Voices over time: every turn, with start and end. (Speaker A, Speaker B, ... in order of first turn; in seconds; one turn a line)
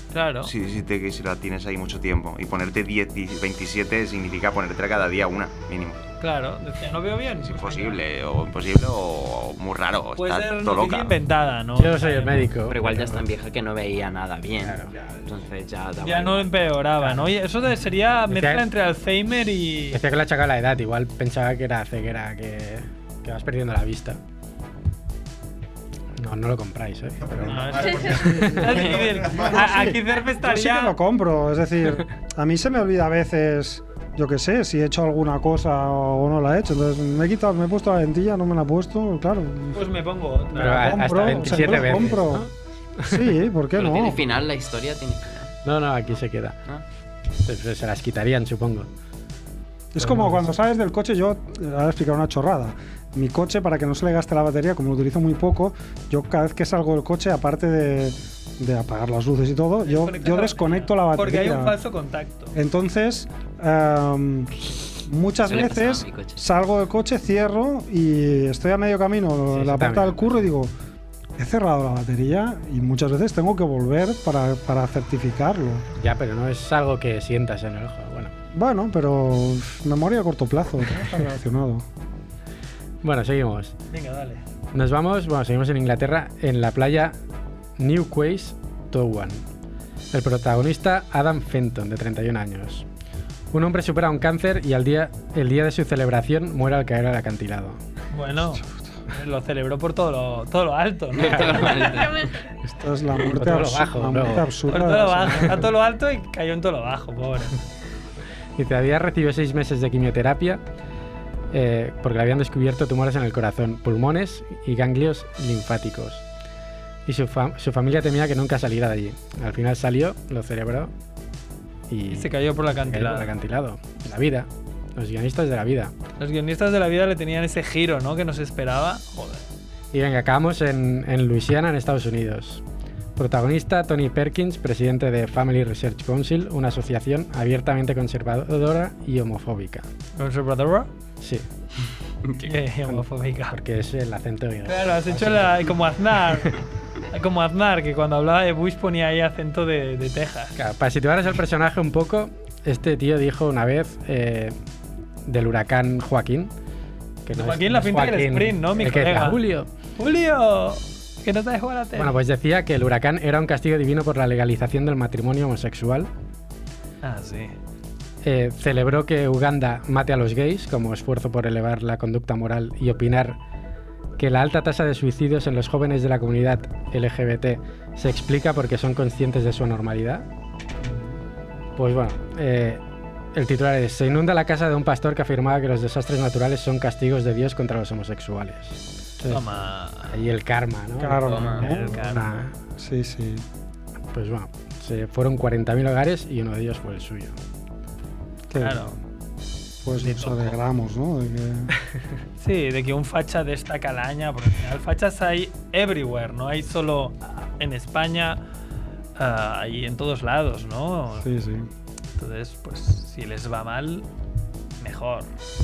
Speaker A: 0.1-0.5
Speaker B: 0.4-6.0
Speaker A: 6.2-8.0
Speaker B: 7.4-11.2
Speaker A: 10.2-12.5
Speaker C: 11.7-13.2
Speaker D: 12.7-16.7
Speaker C: 14.6-14.9
Speaker A: 16.0-20.0
Speaker C: 18.3-18.6
Speaker C: 19.9-24.2
Speaker C: 26.2-28.9
Speaker B: 27.2-29.9
Speaker A: 27.5-30.9
Speaker E: 29.3-39.9
Speaker A: 39.7-42.1
Speaker C: 40.5-43.3
Speaker E: 40.6-42.5
Speaker E: 43.1-44.2
Speaker D: 43.7-45.6
Speaker C: 45.6-46.6
Speaker C: 47.4-48.9
Speaker E: 49.9-61.8
Speaker C: 50.0-50.4
Speaker A: 59.8-62.6
Speaker E: 62.5-70.7
Speaker D: 65.4-66.5
Speaker C: 69.5-70.4
Speaker E: 71.4-75.9
Speaker C: 76.0-78.3
Speaker E: 78.5-81.8
Speaker C: 83.0-83.7
Speaker A: 83.9-84.4
Speaker C: 84.7-87.2
Speaker C: 87.8-89.5
Speaker C: 90.1-92.8
Speaker C: 93.5-97.8
Speaker A: 98.1-102.0
Speaker D: 101.1-102.3
Speaker C: 101.2-101.9
Speaker E: 102.7-105.6
Speaker C: 103.3-104.6
Speaker A: 104.7-107.5
Speaker C: 108.6-110.6
Speaker C: 111.5-116.2
Speaker C: 117.0-120.9
Speaker C: 121.9-125.9
Speaker A: 122.1-123.3
Speaker A: 126.2-129.4
Speaker C: 129.9-132.6
Speaker C: 133.2-139.9
Speaker A: 140.2-140.9
Speaker C: 141.2-141.5
Speaker A: 142.4-143.6
Speaker C: 142.9-145.8
Speaker A: 144.7-150.6
Speaker C: 150.6-154.6
Speaker C: 155.2-156.5
Speaker C: 157.2-159.7
Speaker A: 157.3-159.4
Speaker A: 160.0-162.1
Speaker C: 161.9-166.1
Speaker A: 167.0-167.5
Speaker C: 168.2-173.4
Speaker C: 174.2-180.3
Speaker C: 181.8-182.8
Speaker C: 183.3-189.5
Speaker A: 189.3-190.2
Speaker C: 190.1-192.5
Speaker E: 191.0-193.4
Speaker D: 191.1-191.7
Speaker A: 191.6-192.3
Speaker C: 194.1-197.3
Speaker E: 198.5-199.0
Speaker A: 198.6-198.9
Speaker E: 199.8-201.7
Speaker A: 199.9-200.6
Speaker A: 202.4-208.4
Speaker A: 209.2-211.3
Speaker E: 211.1-211.7
Speaker A: 212.2-214.1
Speaker A: 214.8-215.3